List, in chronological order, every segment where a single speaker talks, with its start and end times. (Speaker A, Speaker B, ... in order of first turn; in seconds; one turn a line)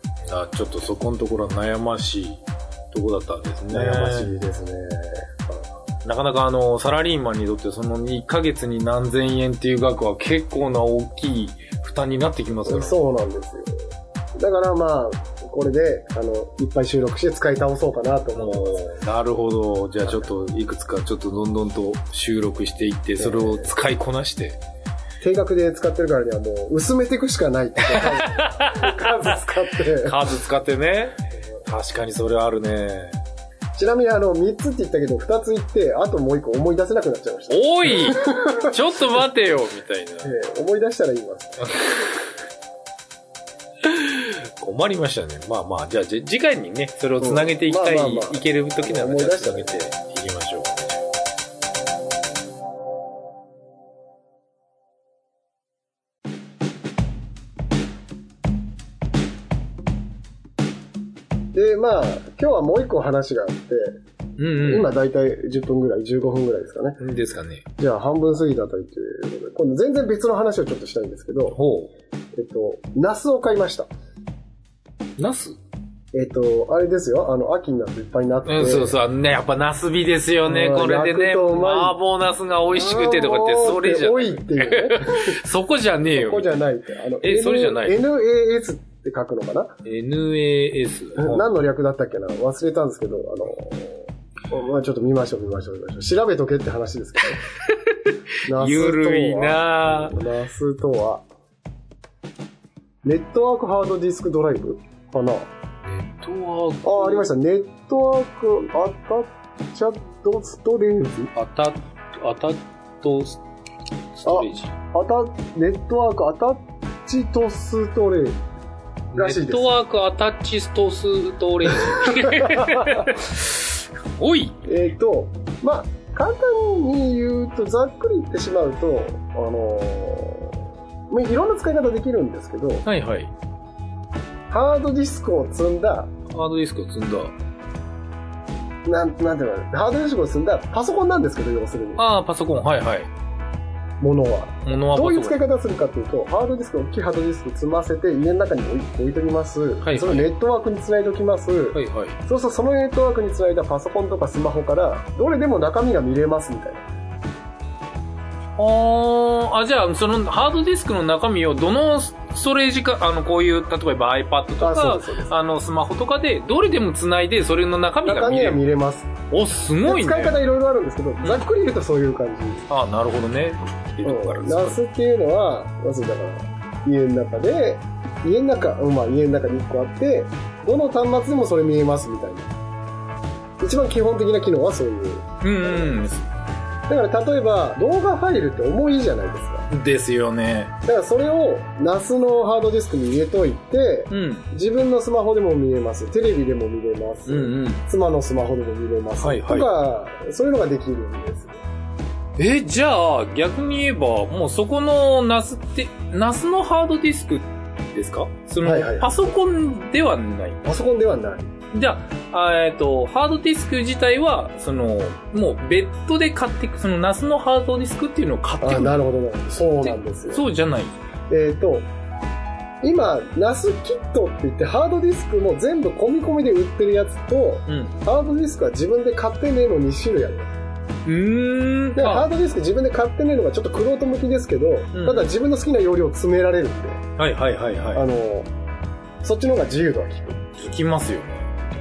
Speaker A: 0.2-4.3
Speaker B: 3.7-5.7
Speaker A: 6.0-13.0
Speaker B: 12.7-13.7
Speaker B: 14.4-18.9
Speaker A: 18.4-24.6
Speaker B: 23.2-23.7
Speaker B: 25.2-30.2
Speaker A: 27.8-33.2
Speaker B: 33.8-38.7
Speaker A: 37.5-40.3
Speaker B: 40.2-41.8
Speaker A: 43.8-51.0
Speaker B: 47.2-49.8
Speaker B: 61.5-64.0
Speaker A: 64.4-64.9
Speaker B: 64.6-67.0
Speaker A: 67.0-67.6
Speaker B: 67.8-71.6
Speaker A: 71.5-71.9
Speaker B: 72.3-73.9
Speaker A: 75.2-75.6
Speaker B: 76.1-78.9
Speaker A: 78.5-86.5
Speaker B: 80.5-82.0
Speaker B: 82.7-85.4
Speaker B: 86.1-89.8
Speaker A: 87.2-88.0
Speaker A: 89.8-91.5
Speaker B: 91.1-97.4
Speaker A: 97.6-100.2
Speaker B: 98.5-101.2
Speaker B: 103.0-105.5
Speaker A: 105.8-107.3
Speaker B: 106.8-111.3
Speaker A: 111.3-113.4
Speaker A: 114.1-114.7
Speaker B: 114.2-118.4
Speaker A: 119.1-124.6
Speaker B: 119.1-119.7
Speaker B: 121.8-123.1
Speaker B: 124.6-130.6
Speaker B: 131.1-132.8
Speaker A: 132.8-133.3
Speaker B: 134.5-136.1
Speaker A: 136.3-137.3
Speaker B: 138.8-142.0
Speaker A: 142.0-143.1
Speaker B: 144.0-156.8
Speaker A: 144.6-145.3
Speaker A: 149.8-150.3
Speaker A: 151.7-152.2
Speaker A: 158.6-168.6
Speaker B: 164.6-165.3
Speaker B: 168.0-169.1
Speaker A: 169.3-170.4
Speaker B: 169.8-172.7
Speaker A: 172.7-174.8
Speaker B: 174.0-182.5
Speaker B: 183.6-186.1
Speaker A: 185.4-186.2
Speaker B: 186.9-189.7
Speaker A: 189.7-190.7
Speaker B: 190.8-201.6
Speaker A: 194.1-194.5
Speaker A: 197.3-197.8
Speaker A: 199.2-199.7
Speaker A: 202.4-210.6
Speaker B: 208.6-209.2
Speaker B: 210.6-211.5
Speaker A: 211.7-219.0
Speaker B: 218.6-220.4
Speaker A: 219.8-220.9
Speaker B: 221.3-221.9
Speaker B: 222.8-230.5
Speaker A: 227.7-227.9
Speaker A: 231.0-232.3
Speaker B: 231.9-237.0
Speaker A: 234.9-235.3
Speaker A: 237.2-238.0
Speaker B: 237.9-238.5
Speaker B: 239.2-240.6
Speaker A: 240.6-241.5